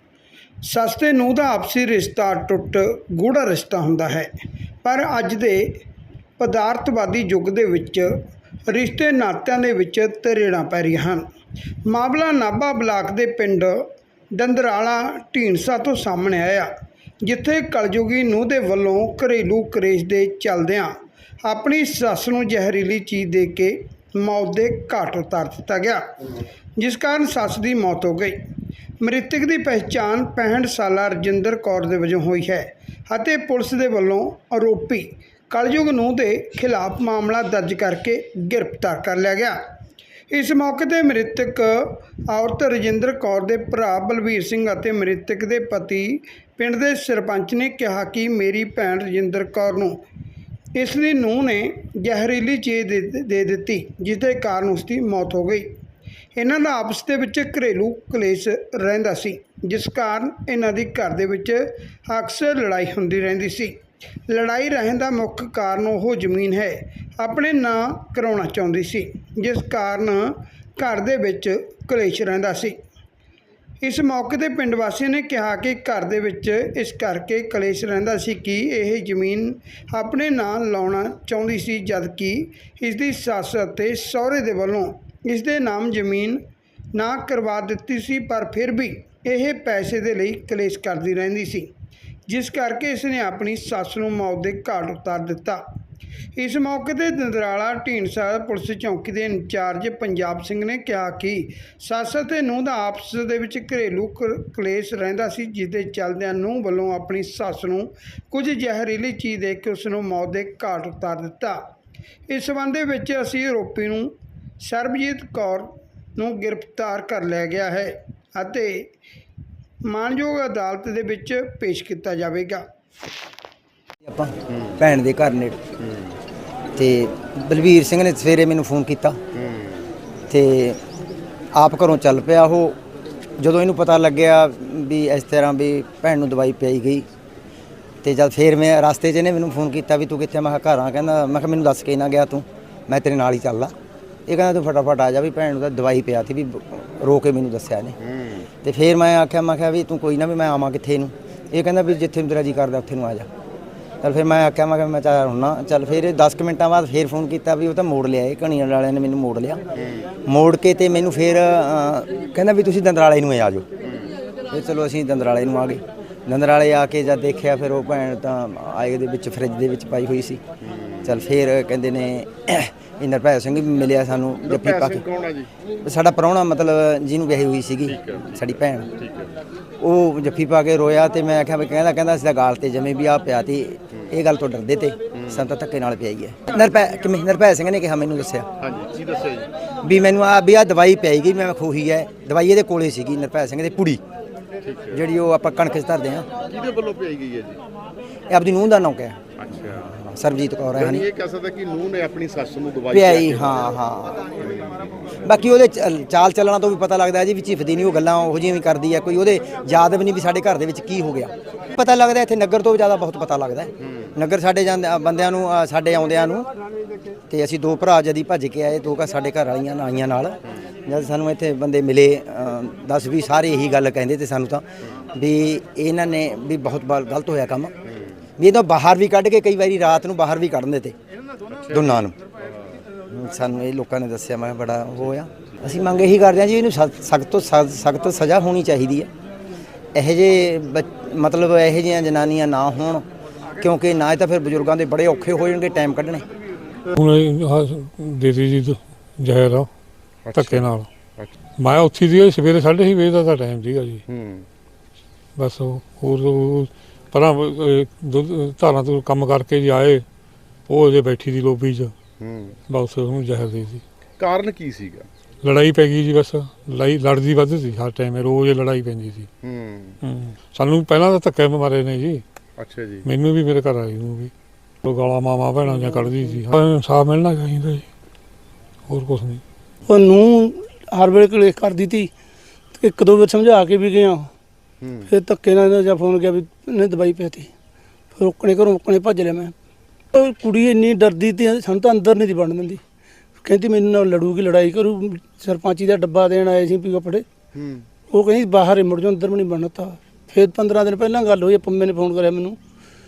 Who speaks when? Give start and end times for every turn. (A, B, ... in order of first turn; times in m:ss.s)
0:00.7-0:04.3 A
0:04.8-0:05.6 A
0:06.4-0:08.1 A
0:08.7-0:11.2 A
0:11.9-0:16.7 A
0:17.2-0:20.9 A
0:21.4-0:26.0 A
0:26.8-0:28.4 A
0:29.0-0:39.6 A
0:40.3-0:50.0 A
0:50.8-0:55.7 A
0:56.4-1:03.8 A
1:04.3-1:12.8 A
1:13.8-1:26.4 A
1:26.9-1:31.7 A
1:32.3-1:35.6 A
1:36.3-1:51.6 A
1:52.3-1:58.8 A
1:59.8-2:02.6 A
2:04.0-2:05.6 B
2:06.8-2:09.2 B
2:09.3-2:09.9 C
2:10.3-2:10.8 B
2:11.5-2:12.8 B
2:13.4-2:17.0 B
2:18.0-2:23.7 B
2:24.3-2:28.0 B
2:28.6-2:33.3 B
2:34.0-2:39.6 B
2:40.2-2:43.7 B
2:43.8-2:44.1 C
2:44.5-2:50.4 B
2:50.7-2:51.0 C
2:51.0-2:55.1 B
2:54.4-2:55.5 C
2:55.8-2:58.9 B
2:57.9-2:59.3 C
2:59.8-3:08.5 B
3:08.6-3:09.5 C
3:09.8-3:14.0 B
3:14.6-3:15.0 C
3:14.9-3:16.3 B
3:16.5-3:17.6 C
3:18.3-3:19.2 B
3:19.4-3:19.8 C
3:19.8-3:21.1 B
3:20.8-3:23.6 C
3:22.9-3:24.3 B
3:24.4-3:25.1 C
3:25.2-3:36.5 B
3:37.3-3:47.7 B
3:48.4-3:50.9 B
3:51.5-3:52.0 C
3:51.7-3:52.1 B
3:53.1-3:59.1 B
3:59.9-4:03.0 B
4:03.6-4:06.2 B
4:06.9-4:09.7 D
4:10.2-4:10.6 C
4:10.3-4:10.9 D
4:11.6-4:14.0 D
4:14.1-4:14.5 C
4:15.4-4:20.0 D
4:20.7-4:21.9 D
4:22.2-4:22.6 C
4:22.7-4:23.8 D
4:24.2-4:25.1 C
4:25.4-4:29.3 D
4:29.4-4:30.0 C
4:30.0-4:32.2 D
4:32.6-4:33.0 C
4:33.0-4:34.3 D
4:34.8-4:37.9 D
4:38.9-4:39.4 D
4:39.8-4:42.1 E
4:42.8-4:44.3 E
4:45.0-4:47.5 E
4:48.2-4:49.5 E
4:50.1-4:52.8 E
4:53.4-4:57.2 E
4:57.6-4:57.8 C
4:58.1-5:02.6 E